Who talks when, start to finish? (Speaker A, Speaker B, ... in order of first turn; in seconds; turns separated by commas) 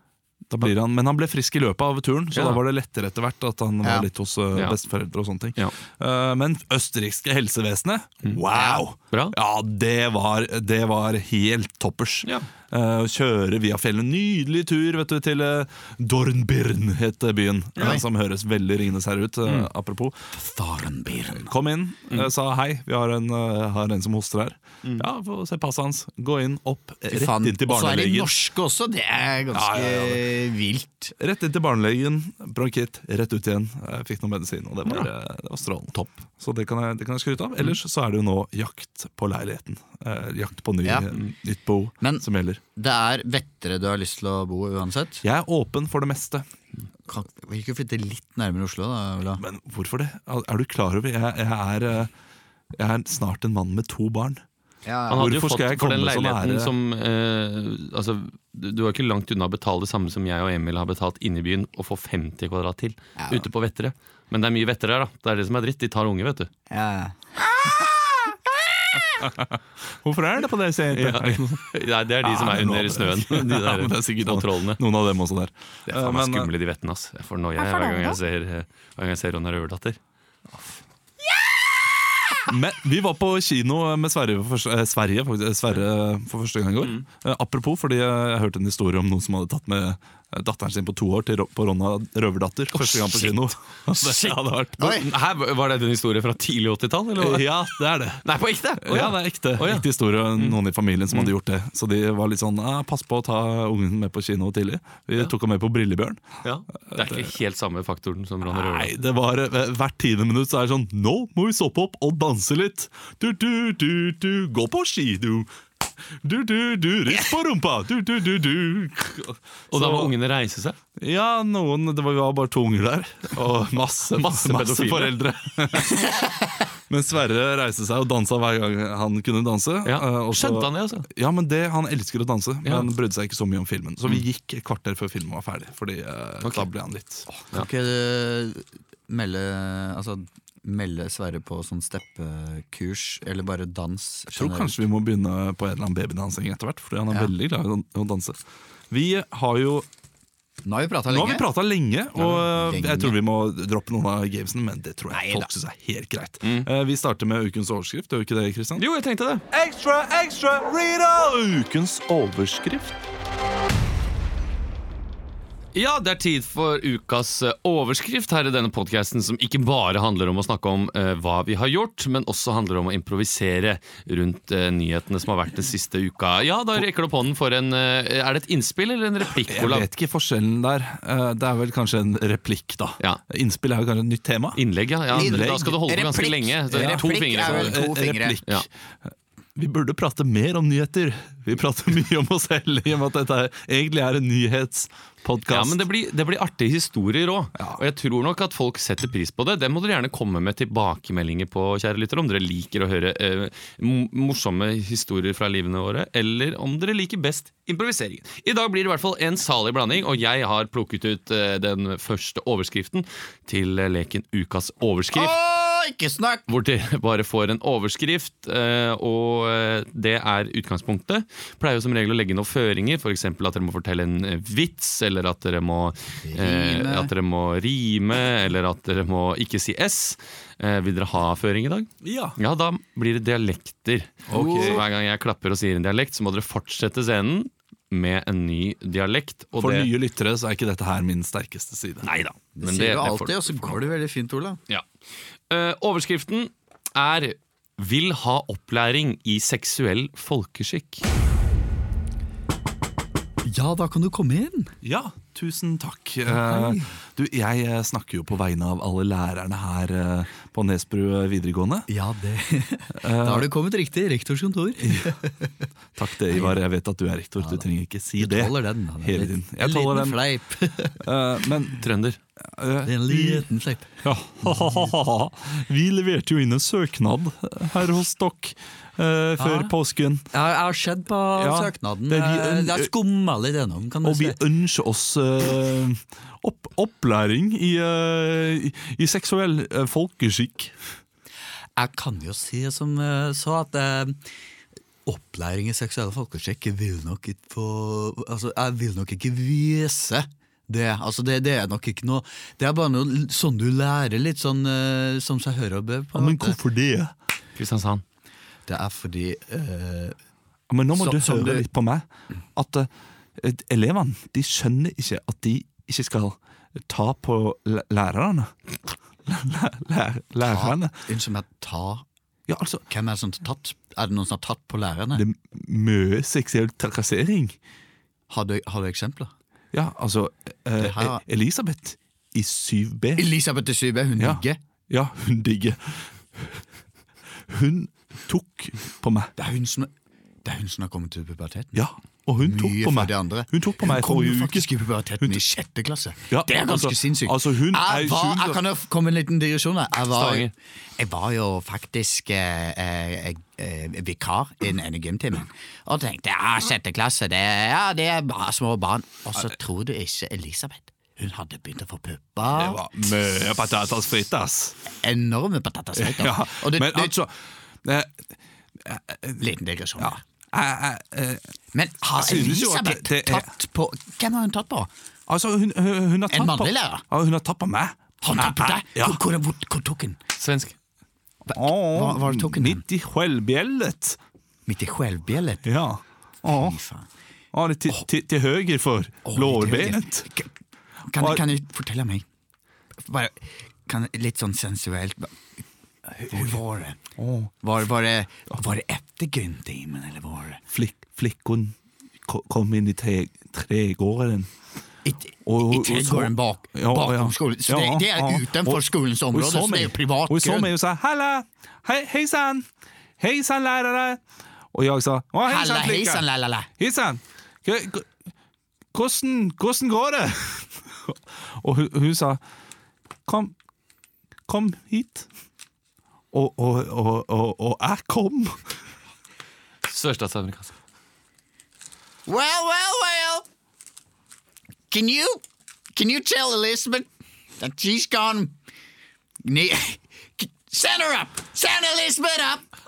Speaker A: 0.5-20.2, Speaker B: 2.3-2.6, Speaker C: 8.5-8.8, Speaker B: 9.1-9.4, Speaker C: 20.4-21.5, Speaker A: 21.3-28.4, Speaker C: 27.1-31.1, Speaker A: 29.5-30.2, Speaker A: 31.2-42.6, Speaker C: 42.8-45.2, Speaker A: 45.2-46.5, Speaker C: 47.1-49.4, Speaker A: 49.4-52.1, Speaker A: 52.8-54.4, Speaker C: 54.9-55.3, Speaker B: 55.1-66.5, Speaker A: 55.1-56.7, Speaker C: 63.2-63.5, Speaker C: 66.7-68.4, Speaker C: 68.9-69.2, Speaker A: 69.2-71.7, Speaker B: 70.9-74.8, Speaker A: 72.2-76.5, Speaker B: 75.9-80.0, Speaker C: 77.6-78.2, Speaker A: 82.5-94.8, Speaker B: 92.7-100.6, Speaker C: 94.8-95.1, Speaker A: 97.2-98.2, Speaker A: 98.8-106.2, Speaker B: 106.4-108.9, Speaker A: 106.9-107.3, Speaker A: 108.5-115.5, Speaker A: 116.2-120.1, Speaker B: 119.7-120.8, Speaker A: 121.0-126.0, Speaker B: 124.1-125.2, Speaker A: 126.9-137.3, Speaker B: 129.8-131.1, Speaker C: 137.5-144.8, Speaker A: 144.3-148.4, Speaker A: 148.9-149.9, Speaker C: 150.6-151.4, Speaker A: 151.1-158.8, Speaker C: 152.2-153.2, Speaker C: 155.1-155.5, Speaker B: 156.4-156.7, Speaker B: 158.8-159.4, Speaker A: 159.5-163.0, Speaker B: 165.8-179.9, Speaker A: 179.4-185.7, Speaker B: 184.6-187.8, Speaker C: 185.1-188.4, Speaker A: 186.7-188.7, Speaker A: 189.6-195.8, Speaker B: 195.5-215.4, Speaker C: 215.1-216.4, Speaker B: 216.5-239.9, Speaker C: 226.3-227.1, Speaker A: 232.0-232.4, Speaker A: 234.3-234.8, Speaker C: 234.3-234.8, Speaker A: 239.6-242.1, Speaker B: 242.0-243.8, Speaker C: 242.6-244.6, Speaker B: 245.5-251.0, Speaker C: 253.4-254.7, Speaker A: 254.8-261.9, Speaker C: 256.3-256.9, Speaker C: 261.9-265.6, Speaker A: 262.9-263.5, Speaker A: 264.8-265.2, Speaker A: 266.0-270.2, Speaker C: 266.3-266.6, Speaker C: 267.4-267.6, Speaker C: 268.2-271.0, Speaker A: 271.0-271.8, Speaker B: 271.8-272.2, Speaker A: 272.4-273.5, Speaker C: 272.9-274.9, Speaker A: 274.0-280.3, Speaker C: 279.4-279.7, Speaker C: 280.3-284.4, Speaker A: 281.4-282.9, Speaker A: 284.0-290.8, Speaker C: 291.8-294.2, Speaker C: 295.1-306.6, Speaker A: 306.1-307.1, Speaker B: 307.6-308.0, Speaker C: 308.7-310.2, Speaker A: 310.7-318.5, Speaker C: 310.9-311.7, Speaker A: 319.3-321.0, Speaker C: 320.4-322.0, Speaker A: 322.5-322.9, Speaker C: 322.9-325.2, Speaker A: 325.1-327.6, Speaker C: 328.3-329.3, Speaker A: 329.7-333.3, Speaker C: 330.8-331.2, Speaker C: 333.2-334.6, Speaker A: 334.2-336.6, Speaker A: 337.5-339.3, Speaker C: 339.4-339.9, Speaker C: 340.4-341.8, Speaker A: 341.8-344.7, Speaker C: 342.4-362.8, Speaker A: 346.3-348.6, Speaker B: 350.1-350.5, Speaker A: 362.5-364.8, Speaker C: 365.0-367.1, Speaker A: 366.0-368.2, Speaker A: 368.8-369.4, Speaker C: 369.4-370.2, Speaker A: 370.0-371.5, Speaker C: 371.7-374.9, Speaker A: 372.1-373.5, Speaker A: 375.3-379.2, Speaker C: 376.3-377.0, Speaker C: 378.2-380.2, Speaker B: 380.4-380.8, Speaker C: 381.5-382.8, Speaker A: 381.5-384.2, Speaker C: 384.7-385.7, Speaker A: 385.6-386.8, Speaker C: 386.4-387.1, Speaker A: 387.5-390.3, Speaker C: 389.3-390.5, Speaker C: 391.1-392.2, Speaker A: 391.2-391.4, Speaker C: 393.0-395.4, Speaker C: 396.1-397.0, Speaker A: 397.2-397.5, Speaker C: 397.6-400.6, Speaker A: 400.7-404.5, Speaker C: 405.1-410.7, Speaker A: 405.4-412.7, Speaker A: 413.2-414.2, Speaker A: 414.7-416.2, Speaker C: 415.5-416.7, Speaker A: 416.8-418.1, Speaker A: 418.9-422.4, Speaker A: 423.3-423.6, Speaker A: 424.5-425.3, Speaker A: 426.3-428.6, Speaker B: 429.9-430.7, Speaker C: 432.3-433.4, Speaker C: 434.9-435.4, Speaker C: 435.9-437.1, Speaker C: 437.6-438.5, Speaker C: 439.4-442.7